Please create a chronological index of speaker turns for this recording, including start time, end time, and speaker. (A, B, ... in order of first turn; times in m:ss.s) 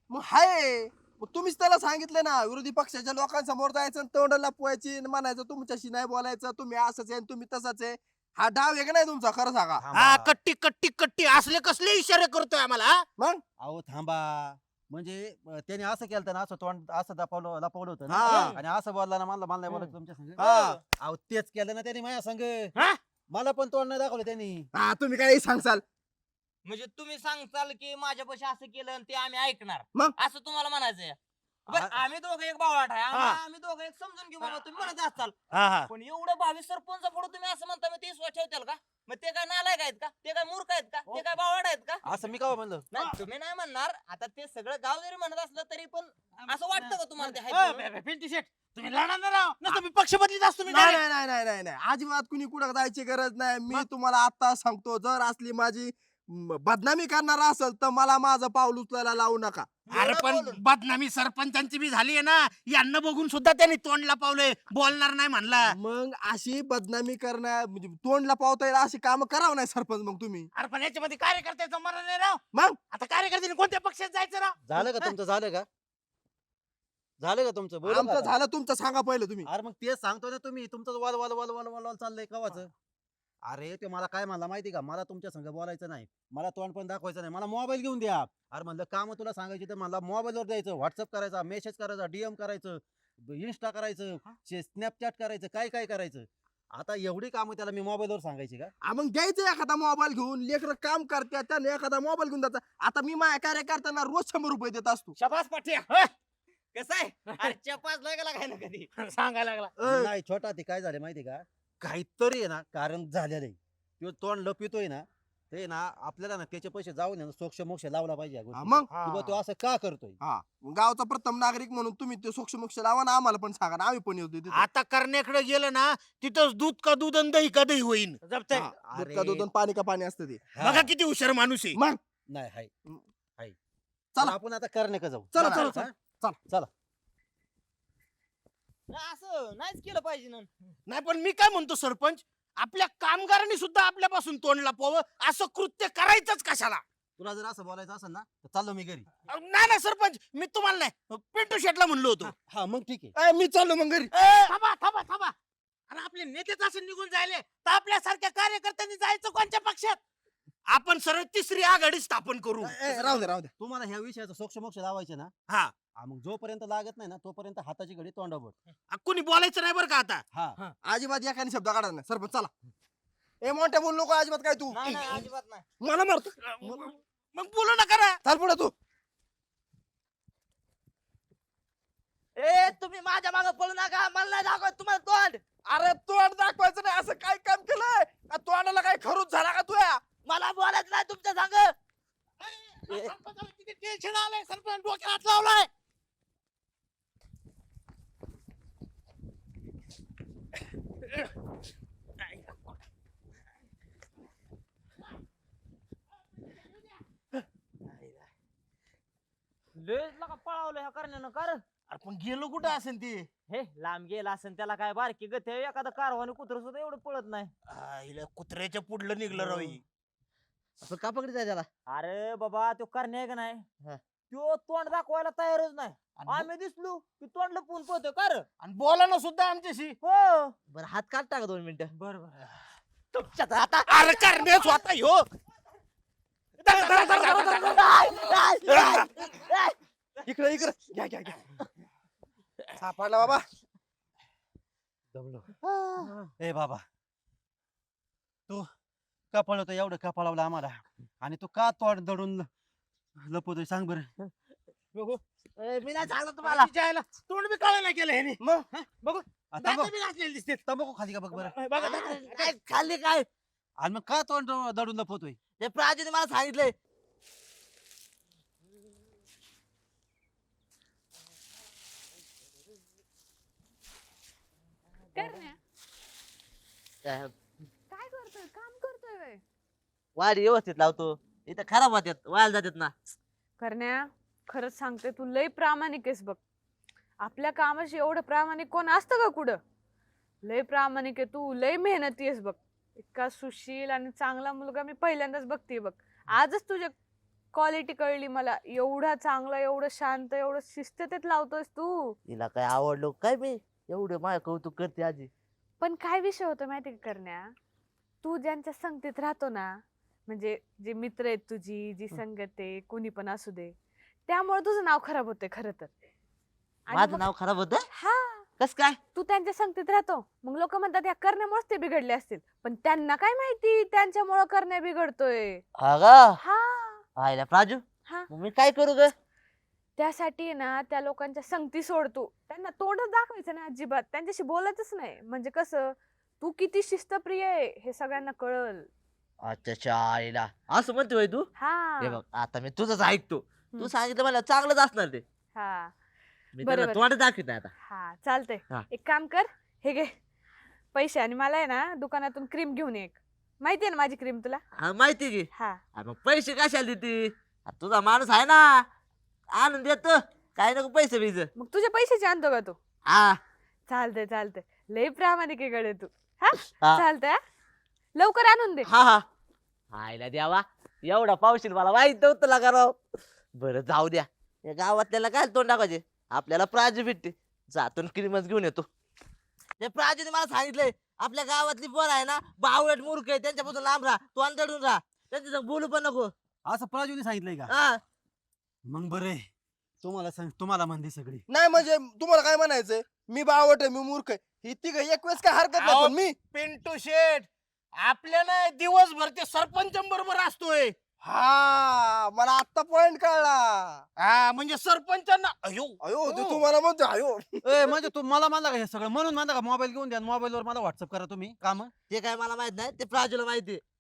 0:00.1-0:09.8 A
0:09.8-0:10.3 B
0:09.9-0:13.1 C
0:13.2-0:13.4 A
0:13.6-0:22.8 B
0:18.1-0:18.6 A
0:20.4-0:20.8 A
0:20.4-0:20.8 D
0:23.3-0:24.7 B
0:24.7-0:25.8 A
0:26.6-0:35.4 D
0:31.7-0:32.0 B
0:33.1-0:33.4 C
0:35.5-0:35.9 C
0:35.9-0:42.0 D
0:42.0-0:42.9 B
0:42.9-0:47.9 D
0:46.5-0:51.0 C
0:50.7-1:00.2 A
0:59.9-1:00.5 D
0:59.9-1:05.7 C
1:05.6-1:10.5 A
1:10.6-1:12.4 C
1:12.5-1:12.8 A
1:12.9-1:15.1 C
1:14.6-1:15.7 B
1:17.2-1:18.3 B
1:17.9-1:19.5 A
1:19.4-1:22.7 B
1:23.5-1:38.7 B
1:38.8-1:45.2 A
1:45.2-1:46.1 D
1:46.7-1:48.9 D
1:49.0-1:49.7 C
1:49.8-1:50.1 A
1:49.8-2:00.2 B
1:58.5-1:58.9 A
1:58.9-1:59.4 C
2:00.2-2:04.7 A
2:04.5-2:08.2 C
2:08.5-2:10.4 A
2:08.6-2:09.5 B
2:10.5-2:10.9 B
2:10.6-2:11.8 C
2:11.8-2:12.0 A
2:12.3-2:12.7 B
2:14.2-2:16.0 B
2:15.3-2:16.4 A
2:15.4-2:15.8 C
2:18.9-2:20.5 D
2:20.9-2:26.8 C
2:27.2-2:29.1 B
2:29.3-2:32.3 C
2:32.5-2:33.1 B
2:33.2-2:34.1 A
2:34.1-2:35.3 C
2:35.9-2:40.0 C
2:40.7-2:42.8 C
2:42.6-2:43.5 A
2:42.9-2:45.3 B
2:45.5-2:45.7 C
2:46.0-2:48.6 B
2:48.9-2:50.2 C
2:50.3-2:50.6 B
2:50.8-2:52.5 A
2:53.4-2:55.0 A
2:54.7-2:55.6 D
2:55.8-2:56.9 A
2:56.6-2:58.2 C
2:58.2-2:58.7 A
3:02.4-3:05.4 E
3:05.7-3:10.0 A
3:10.2-3:11.8 E
3:12.5-3:15.6 C
3:12.9-3:13.1 E
3:29.8-3:31.6 D
3:31.9-3:33.3 C
3:33.5-3:37.5 D
3:37.7-3:39.8 C
3:40.8-3:41.7 E
3:41.9-3:43.6 D
3:44.3-3:48.4 D
3:46.2-3:46.5 C
3:48.6-3:50.0 C
3:50.0-3:50.6 D
3:50.7-3:51.9 E
3:52.0-3:52.4 D
3:53.1-3:54.2 E
3:53.9-3:55.3 C
3:56.6-3:58.2 C
3:56.8-3:59.8 E
3:58.7-3:59.0 A
3:58.7-3:59.0 C
4:00.2-4:01.5 A
4:02.8-4:03.5 A
4:05.1-4:05.5 B
4:06.4-4:06.8 B
4:09.3-4:12.5 B
4:13.2-4:14.1 B
4:15.0-4:15.2 C
4:15.6-4:16.7 E
4:16.4-4:20.6 C
4:18.4-4:18.7 A
4:19.5-4:20.0 B
4:20.7-4:21.6 B
4:21.3-4:22.5 C
4:21.8-4:23.3 E
4:23.8-4:25.4 B
4:25.6-4:26.8 E
4:35.2-4:35.6 F
4:37.0-4:37.3 E
4:37.9-4:39.4 F
4:40.2-4:42.9 E
4:43.6-4:46.4 F
4:47.2-4:49.6 F
4:50.4-4:56.9 F
4:57.5-5:02.2 F
5:02.3-5:05.3 E
5:05.8-5:07.5 F
5:08.2-5:09.8 F
5:10.3-5:13.7 F
5:14.3-5:15.9 F
5:16.9-5:17.3 F
5:16.9-5:17.9 E
5:17.9-5:18.5 F
5:18.6-5:19.0 E
5:19.2-5:25.6 F
5:25.8-5:26.4 E
5:26.4-5:27.0 F
5:27.2-5:29.1 E
5:28.0-5:28.3 F
5:30.0-5:38.9 F
5:39.4-5:41.5 E
5:41.6-5:42.2 F
5:42.0-5:45.2 E
5:45.6-5:45.9 F
5:46.6-5:47.7 E
5:46.6-5:47.1 F
5:47.9-5:50.1 F
5:50.9-5:54.6 F
5:54.8-5:58.9 E
5:55.5-5:55.8 F
5:59.5-6:01.5 E
6:01.6-6:02.8 F
6:03.1-6:03.4 E
6:03.9-6:07.4 F
6:08.2-6:08.9 F
6:08.9-6:09.2 E
6:09.9-6:13.0 E
6:13.6-6:18.9 E
6:19.8-6:26.3 E
6:26.6-6:27.7 B
6:27.7-6:28.0 E
6:28.9-6:29.5 B
6:30.0-6:31.5 B
6:31.5-6:36.4 A
6:35.7-6:37.5 C
6:38.0-6:41.0 C
6:41.2-6:44.0 A
6:44.2-6:46.6 C
6:46.0-6:48.0 A
6:47.6-6:51.9 B
6:52.1-6:53.8 E